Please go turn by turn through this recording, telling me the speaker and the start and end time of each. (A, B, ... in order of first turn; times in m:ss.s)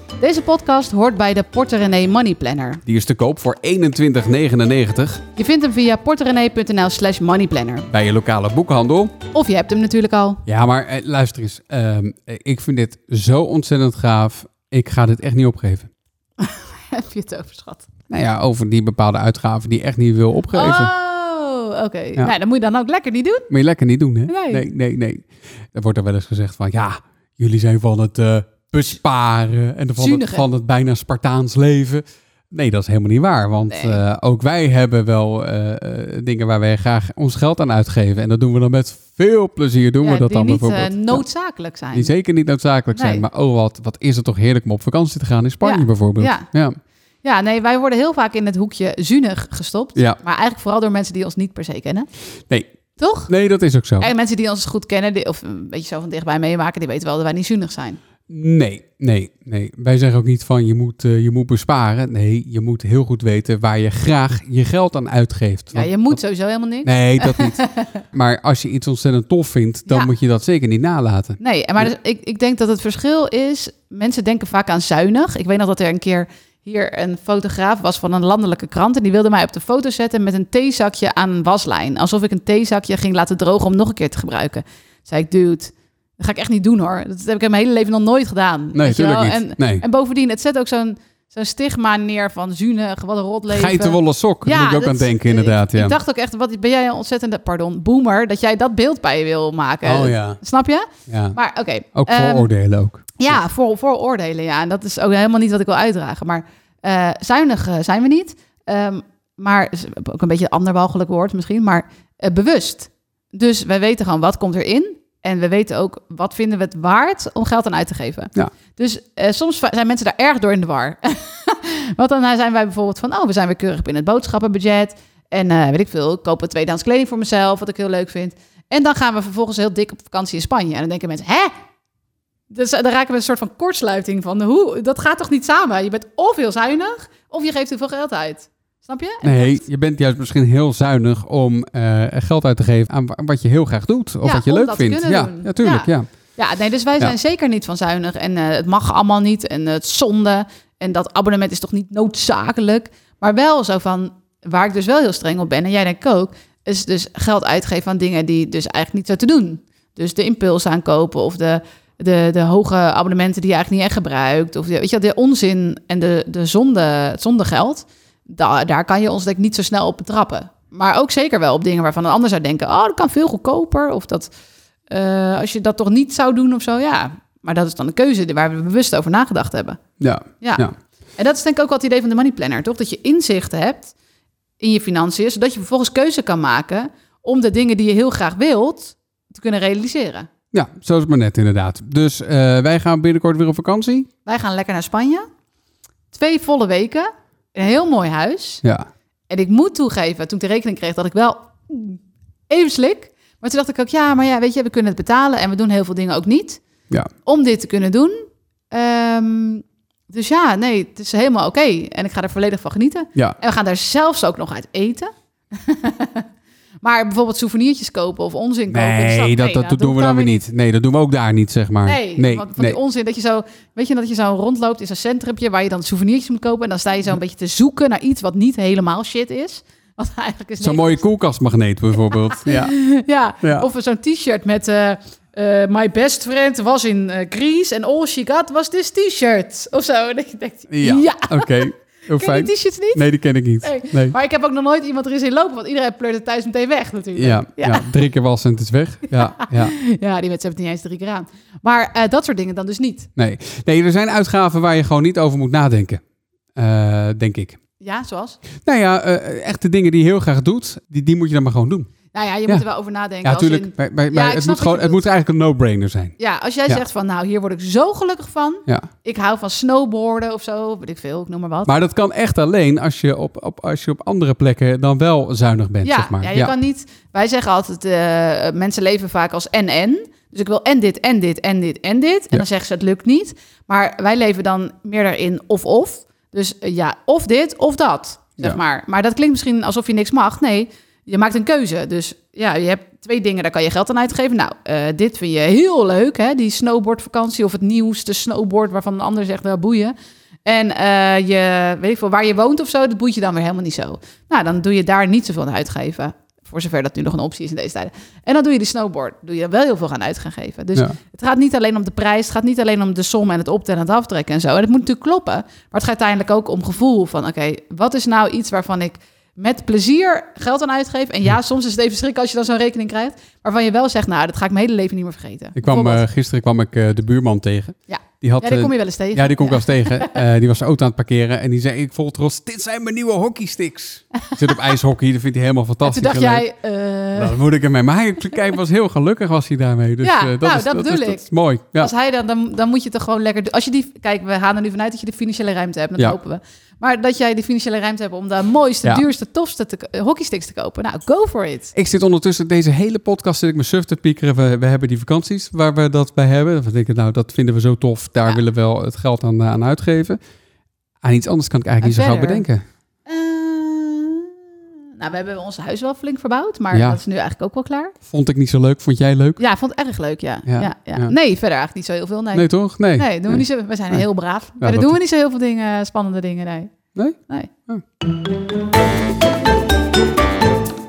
0:00.2-0:02.8 A
0:02.9-0:05.2 B
0:05.4-0:07.9 A
0:07.9-0:09.1 B
0:09.3-0:10.4 A
0:10.5-0:15.9 B
0:16.4-0:17.9 A
0:18.1-0:20.9 B
0:20.5-0:23.5 A
0:23.5-0:41.2 B
0:24.3-0:24.6 A
0:30.0-0:30.5 A
0:33.7-0:34.0 A
0:40.0-0:42.1 A
0:41.9-0:46.8 B
0:42.9-0:43.2 A
0:45.6-0:46.5 A
0:47.2-0:52.1 A
0:53.0-0:53.3 A
0:53.3-0:54.1 B
0:54.0-0:58.0 A
0:58.3-1:06.2 B
1:05.7-1:08.0 A
1:06.8-1:07.6 B
1:08.1-1:11.9 B
1:11.4-1:42.5 A
1:28.7-1:29.8 B
1:33.5-1:36.0 B
1:39.8-1:40.4 B
1:41.1-1:41.4 B
1:42.0-1:43.4 B
1:43.2-2:11.5 A
2:12.5-2:19.6 A
2:19.2-2:26.1 B
2:24.2-2:54.3 A
2:54.9-2:59.8 A
3:00.0-3:00.7 B
3:00.4-3:03.9 A
3:04.6-3:10.3 A
3:10.5-3:14.1 B
3:14.2-3:15.3 A
3:16.1-3:18.6 A
3:19.3-3:26.6 A
3:27.2-3:36.3 A
3:36.8-3:40.4 A
3:38.7-3:42.8 B
3:41.8-3:51.0 A
3:50.6-3:52.8 B
3:52.0-4:03.0 A
3:53.4-3:53.7 B
4:00.7-4:04.2 B
4:03.6-4:07.9 A
4:07.2-4:09.8 B
4:09.1-4:13.1 A
4:13.2-4:16.0 B
4:16.6-4:17.6 B
4:17.8-4:18.4 A
4:18.6-4:21.9 B
4:22.1-4:25.0 A
4:23.2-4:26.2 B
4:26.2-4:31.7 A
4:31.7-4:36.5 B
4:35.8-4:59.9 A
5:00.4-5:26.0 A
5:25.6-5:36.5 B
5:27.9-5:30.2 A
5:34.3-5:34.7 A
5:35.8-5:37.4 A
5:37.2-5:41.9 B
5:40.0-5:51.7 A
5:51.8-6:00.2 B
6:01.0-6:02.6 B
6:01.8-6:02.5 A
6:03.1-6:04.4 A
6:05.0-6:08.0 A
6:06.7-6:07.0 B
6:08.1-6:09.4 B
6:09.4-6:16.7 A
6:10.5-6:11.1 B
6:12.3-6:14.0 B
6:14.6-6:15.0 B
6:17.0-6:17.8 B